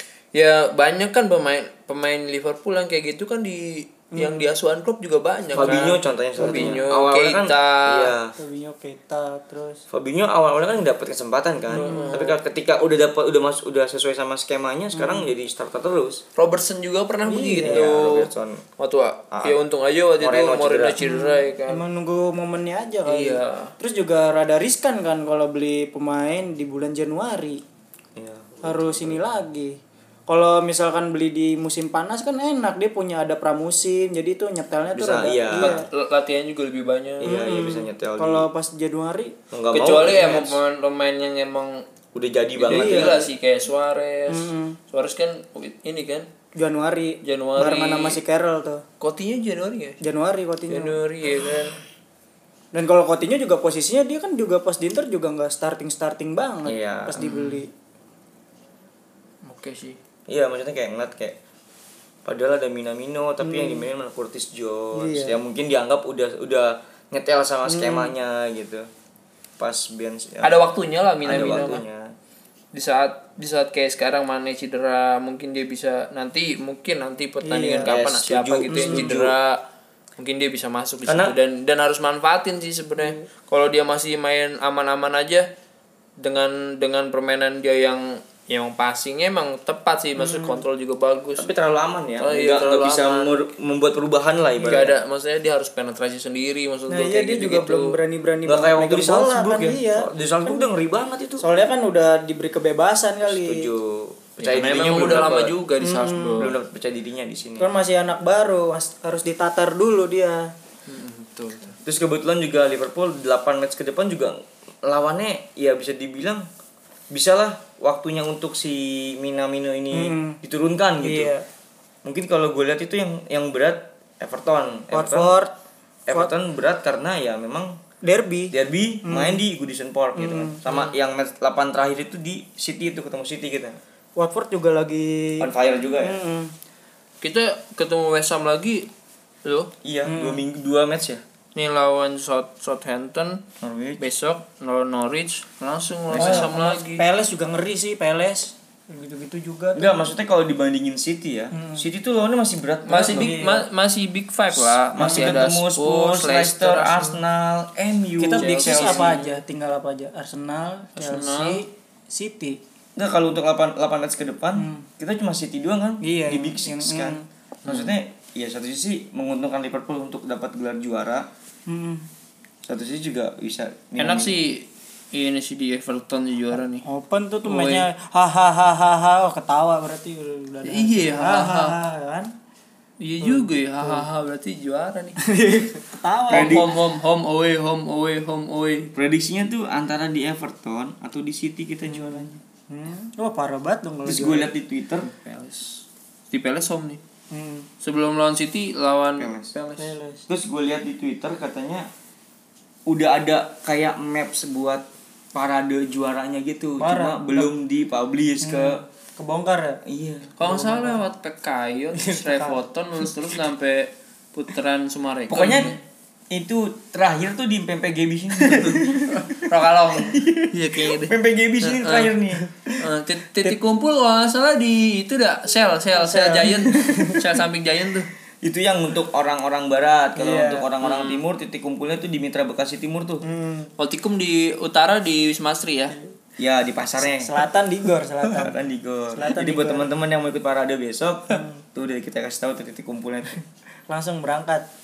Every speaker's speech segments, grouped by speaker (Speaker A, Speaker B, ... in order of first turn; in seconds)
Speaker A: 0.3-8.2, 11.7-12.4, 16.4-21.8, 23.1-23.7, 35.6-37.4, 39.7-41.8, 42.6-46.3, 47.2-48.2, 49.0-50.0, 50.7-51.8, 57.2-57.6, 59.5-60.0, 70.4-71.8, 72.7-79.6, 80.2-85.5, 86.2-91.5, 92.2-93.3, 94.7-98.0, 104.4-106.6, 110.9-111.8, 130.7-130.9, 137.2-138.9, 139.4-139.7, 141.6-143.4, 144.0-147.1, 152.9-157.2, 158.4-159.4, 161.0-161.6, 167.7-168.0, 174.0-176.8, 177.4-177.9, 180.7-181.8, 183.0-185.2, 186.3-188.9, 195.0-197.0, 197.8-199.9, 210.4-215.8, 218.5-222.2, 222.8-228.1, 230.8-231.2, 233.8-236.0
Speaker B: 4.1-4.5, 5.6-6.8, 8.4-9.8, 11.7-12.2, 14.9-15.3, 17.3-17.9, 21.0-27.6, 28.6-29.8, 30.3-35.9, 37.2-39.4, 42.7-43.1, 44.3-44.8, 46.6-48.8, 50.0-51.0, 52.7-57.7, 63.4-63.9, 64.9-65.4, 67.7-68.1, 77.4-77.9, 78.7-79.1, 83.0-83.2, 90.2-90.6, 96.9-100.7, 101.4-103.7, 105.8-106.4, 107.6-110.5, 119.9-120.4, 121.0-121.4, 124.9-125.5, 128.0-129.4, 130.2-130.6, 134.2-135.5, 136.0-136.5, 140.1-140.4, 146.1-149.9, 151.5-151.8, 155.0-155.3, 158.2-162.6, 164.6-164.9, 166.0-167.3, 171.7-172.1, 176.6-182.3, 183.2-184.1, 185.2-186.7, 192.7-194.5, 197.3-197.7, 199.8-200.2, 206.8-207.5, 208.4-209.8, 210.4-211.0, 212.0-212.7, 226.0-227.3, 230.2-230.7, 233.2-233.7, 237.0-238.5, 239.1-239.9, 241.3-241.6, 243.9-244.7
Speaker C: 5.5-8.3, 9.9-16.2, 17.6-18.6, 20.2-21.0, 28.2-29.2, 34.9-35.8, 37.2-38.5, 39.5-40.6, 42.1-43.3, 56.6-57.4, 60.3-61.4, 62.3-68.9, 69.6-70.6, 71.2-72.1, 77.9-79.4, 81.1-81.3, 91.4-95.0, 98.5-101.5, 103.2-105.6, 106.4-107.7, 111.8-116.5, 117.1-121.3, 122.0-125.3, 126.1-127.8, 128.5-133.8, 135.4-136.2, 139.8-141.2, 143.6-144.0, 146.1-146.5, 149.8-153.7, 154.5-159.2, 163.0-171.3, 172.7-174.3, 186.3-186.7, 188.9-192.4, 194.1-195.1, 199.2-199.5, 200.3-201.9, 202.9-208.8, 209.8-210.4, 215.3-215.8, 216.3-219.4, 220.0-222.8, 228.4-233.2, 236.4-237.3, 238.2-243.4